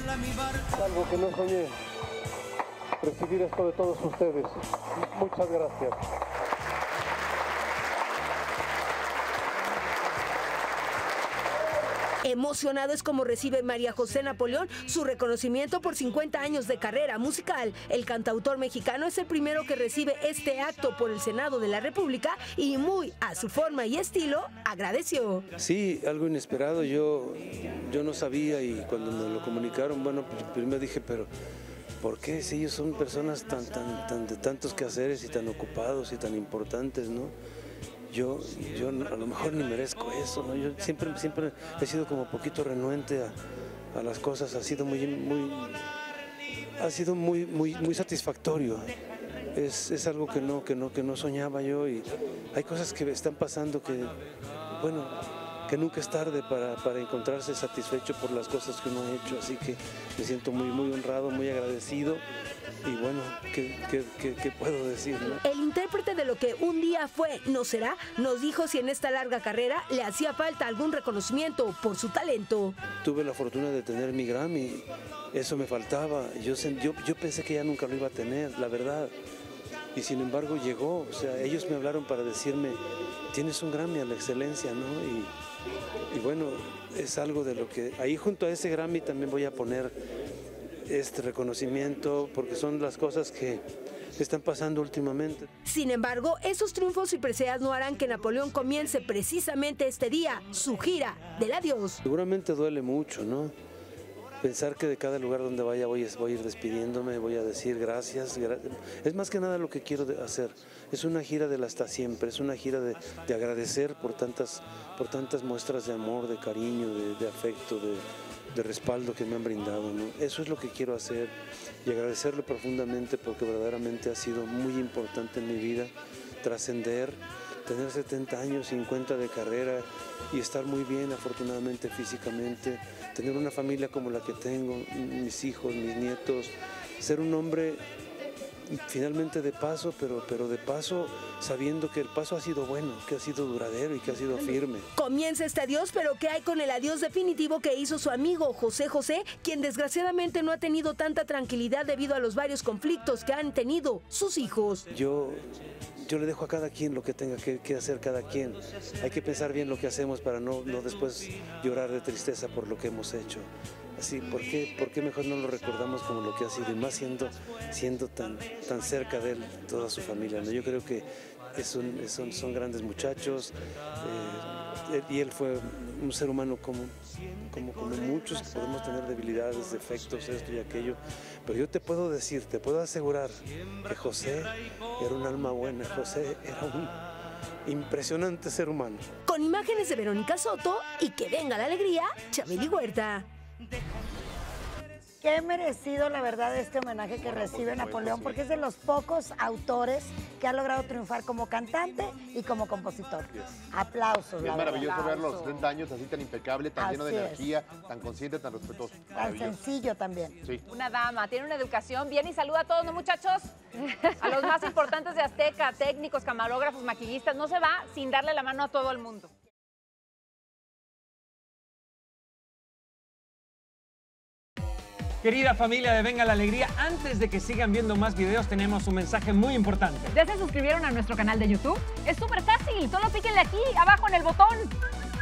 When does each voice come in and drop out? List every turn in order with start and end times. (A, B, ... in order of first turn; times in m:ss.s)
0:00.7-0:01.8 A
0:03.0-0:06.0 A
0:12.2-0:25.5 B
0:25.6-0:31.3 C
0:32.0-0:37.3 C
0:38.1-0:43.3 C
0:43.9-0:45.8 C
0:46.8-0:48.9 C
0:49.5-0:54.1 C
0:54.7-1:02.2 C
1:02.8-1:05.4 C
1:05.4-1:12.8 B
1:13.0-1:19.1 C
1:19.9-1:22.8 C
1:23.3-1:25.3 C
1:26.1-1:29.9 C
1:30.8-1:33.6 C
1:34.2-1:35.5 C
1:35.6-1:42.0 B
1:42.0-1:43.5 C
1:44.4-2:17.8 C
2:18.7-2:24.9 C
2:25.0-2:34.8 B
2:34.9-2:35.4 C
2:36.0-3:07.0 C
3:07.6-3:09.1 C
3:09.2-3:13.2 B
3:15.2-3:25.2 D
3:17.2-3:18.4 E
3:24.4-3:29.6 E
3:24.8-3:25.6 F
3:26.8-3:27.5 D
3:29.1-3:30.4 D
3:30.7-3:39.3 F
3:45.2-3:50.1 G
3:50.1-3:54.7 F